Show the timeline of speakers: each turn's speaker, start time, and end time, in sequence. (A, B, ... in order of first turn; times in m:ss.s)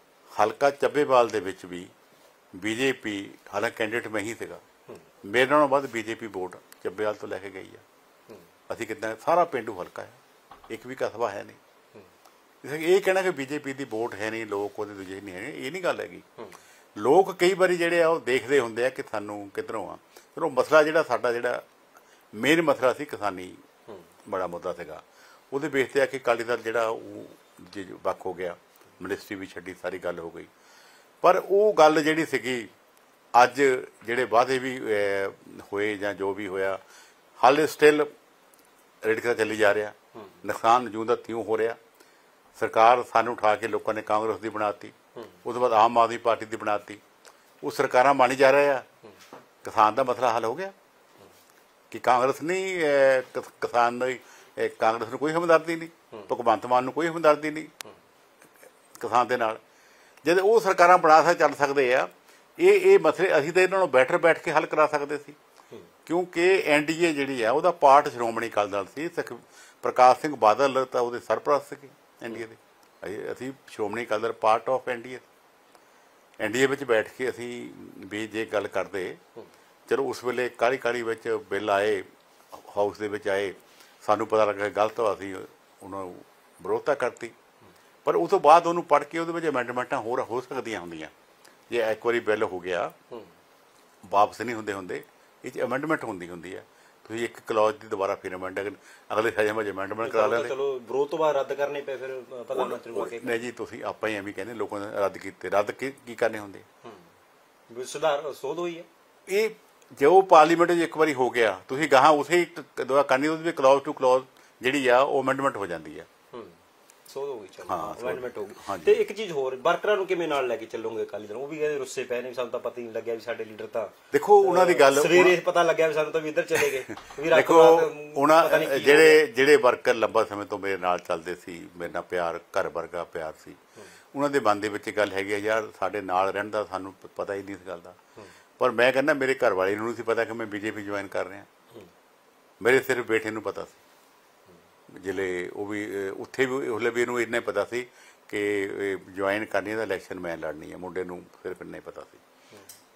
0:00.4-0:01.9 A
0:02.6-0:04.6 A
0:05.2-0:07.8 A
0:08.7-0:11.6 A
0:12.6-0:16.3 A
0:17.0-0:21.6 A
0:22.3-0:23.6 A
0:24.3-0:30.5 A
0:31.2-0:32.7 A
0:33.4-0:36.8 A
0:37.4-0:38.1 A
0:39.0-0:41.8 A
0:42.6-0:47.0 A
0:47.6-0:48.9 A
0:49.6-0:50.7 A
0:51.9-0:57.7 A
0:59.0-0:59.6 A
1:00.2-1:05.4 A
1:06.1-1:15.3 A
1:16.4-1:19.2 A
1:19.9-1:27.3 A
1:28.0-1:31.1 A
1:31.7-1:32.9 A
1:34.1-1:40.5 A
1:40.0-1:43.5 B
1:42.5-1:46.7 A
1:47.7-1:48.9 B
1:49.3-1:56.1 A
1:56.3-2:09.2 B
1:57.6-1:59.0 A
2:04.1-2:05.4 A
2:06.9-2:13.6 A
2:14.1-2:18.0 A
2:18.6-2:21.5 A
2:22.6-2:23.8 A
2:24.9-2:32.2 A